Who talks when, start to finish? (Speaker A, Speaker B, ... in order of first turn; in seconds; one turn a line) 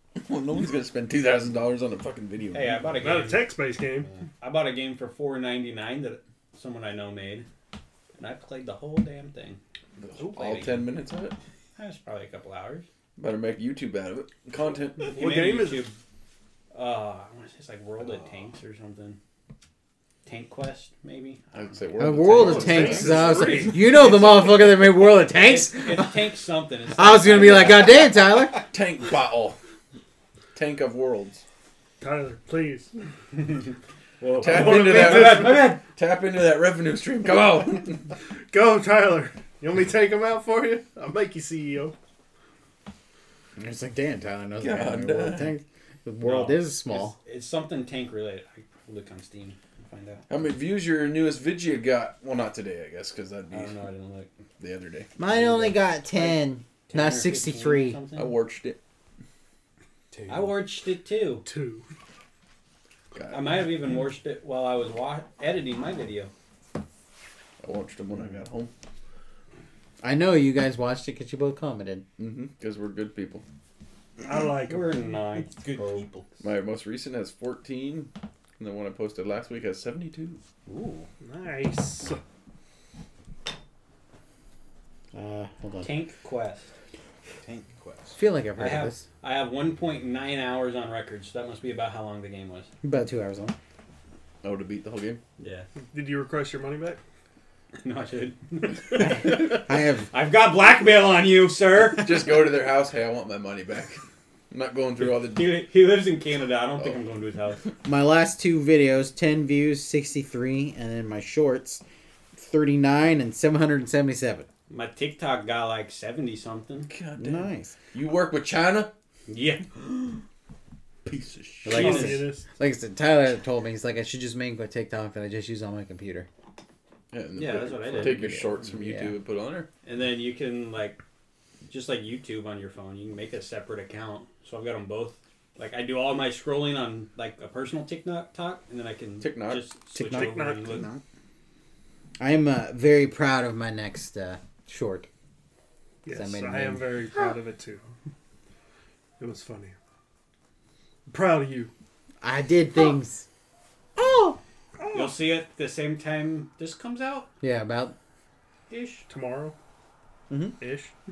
Speaker A: 0.2-2.9
Speaker B: 2.5-3.5
Speaker C: 3.0-4.1
Speaker B: 4.2-7.5
Speaker B: 8.2-9.6
Speaker A: 10.0-11.4
Speaker B: 10.2-10.9
Speaker B: 11.8-12.9
Speaker A: 13.2-15.1
Speaker C: 15.1-15.9
Speaker B: 15.1-16.0
Speaker B: 16.7-19.2
Speaker B: 20.2-21.8
Speaker A: 21.5-23.7
Speaker D: 22.0-26.3
Speaker C: 22.3-23.9
Speaker B: 22.6-24.2
Speaker B: 25.3-28.1
Speaker D: 26.9-28.6
Speaker A: 28.7-29.6
Speaker A: 30.6-31.4
Speaker C: 32.0-32.9
Speaker B: 33.4-35.8
Speaker A: 34.4-38.1
Speaker C: 34.5-35.7
Speaker C: 38.5-42.0
Speaker D: 43.6-47.1
Speaker A: 44.6-45.5
Speaker B: 46.2-50.2
Speaker A: 50.3-53.8
Speaker B: 53.5-54.3
Speaker A: 54.6-55.1
Speaker D: 55.2-58.0
Speaker B: 55.3-56.4
Speaker B: 56.9-58.3
Speaker A: 58.1-58.8
Speaker E: 60.1-60.6
Speaker B: 60.3-61.5
Speaker C: 61.5-61.9
Speaker A: 63.1-63.7
Speaker B: 63.3-66.3
Speaker A: 67.6-68.7
Speaker D: 70.0-72.0
Speaker A: 72.2-73.4
Speaker C: 74.2-75.0
Speaker B: 74.7-76.1
Speaker E: 75.6-76.3
Speaker A: 76.4-80.4
Speaker E: 80.7-81.1
Speaker C: 81.2-82.2
Speaker D: 85.1-85.9
Speaker B: 85.8-86.7
Speaker E: 87.4-88.2
Speaker D: 88.2-89.0
Speaker B: 88.6-92.7
Speaker D: 92.8-93.5
Speaker A: 94.4-95.2
Speaker B: 95.4-95.7
Speaker C: 95.9-97.0
Speaker B: 97.8-102.3
Speaker D: 99.0-100.1
Speaker A: 102.0-105.5
Speaker B: 105.0-107.6
Speaker D: 107.8-111.8
Speaker D: 112.4-114.5
Speaker B: 114.7-116.9
Speaker A: 116.9-118.9
Speaker D: 117.2-117.8
Speaker B: 119.3-120.2
Speaker A: 121.0-122.1
Speaker D: 121.7-126.3
Speaker C: 121.7-122.5
Speaker B: 121.8-122.2
Speaker A: 127.1-129.7
Speaker B: 127.4-128.4
Speaker D: 127.9-129.1
Speaker B: 129.8-131.0
Speaker B: 131.7-140.9
Speaker A: 139.2-139.6
Speaker D: 139.9-140.3
Speaker C: 140.1-140.9
Speaker D: 142.2-145.1
Speaker C: 146.0-147.8
Speaker D: 146.1-147.0
Speaker C: 149.2-149.8
Speaker C: 151.1-151.7
Speaker D: 152.2-153.3
Speaker D: 154.0-154.4
Speaker C: 154.8-155.1
Speaker B: 154.9-157.3
Speaker D: 157.4-158.0
Speaker B: 158.7-159.1
Speaker C: 159.1-159.6
Speaker D: 160.3-160.6
Speaker C: 160.6-160.9